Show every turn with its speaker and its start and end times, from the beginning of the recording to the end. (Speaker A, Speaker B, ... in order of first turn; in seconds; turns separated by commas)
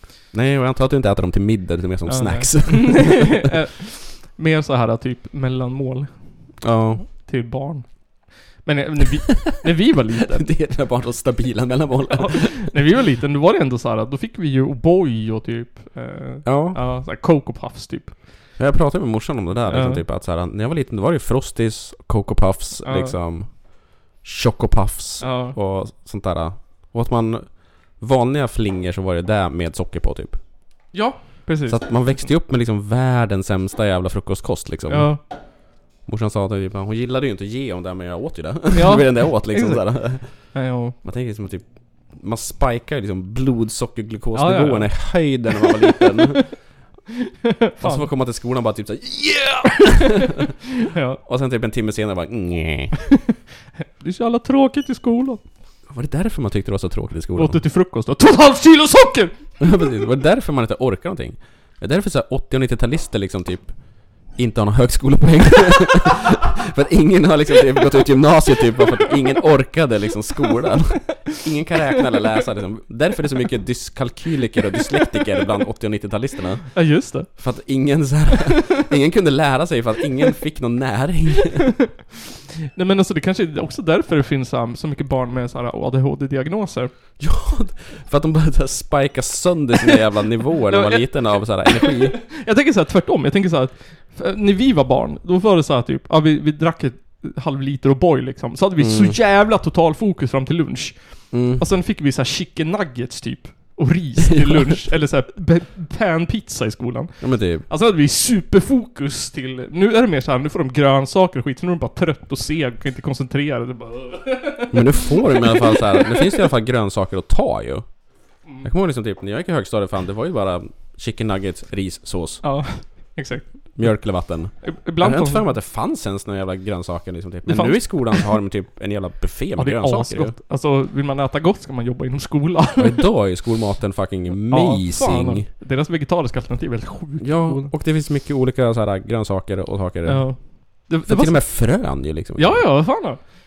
Speaker A: 0.3-3.5, Speaker B: 2.1-10.5, Speaker A: 6.6-7.1, Speaker A: 9.4-12.7, Speaker B: 12.1-18.1, Speaker A: 16.4-16.9, Speaker A: 18.6-30.4, Speaker B: 19.7-20.0, Speaker B: 22.8-23.1, Speaker B: 25.2-25.6, Speaker B: 30.9-32.3, Speaker A: 31.6-35.4, Speaker B: 34.9-35.2, Speaker A: 36.0-46.6, Speaker B: 38.7-41.0, Speaker B: 44.3-45.4, Speaker B: 47.6-48.1, Speaker A: 47.8-50.2, Speaker B: 50.9-51.2, Speaker A: 51.2-52.9, Speaker B: 54.0-55.4, Speaker A: 55.9-57.6, Speaker B: 57.3-59.4, Speaker A: 59.6-81.8, Speaker B: 76.7-77.3, Speaker B: 82.7-86.9, Speaker A: 87.2-92.2, Speaker B: 90.7-116.2, Speaker A: 98.8-99.2, Speaker A: 101.3-101.6, Speaker A: 104.4-104.7, Speaker A: 107.2-107.7, Speaker A: 114.7-117.9, Speaker A: 118.6-122.4, Speaker B: 122.4-124.1, Speaker A: 123.8-130.3, Speaker B: 124.6-125.5, Speaker B: 127.5-128.4, Speaker B: 129.6-133.1, Speaker A: 132.8-135.5, Speaker B: 134.5-137.7, Speaker A: 137.2-142.8, Speaker B: 140.1-143.2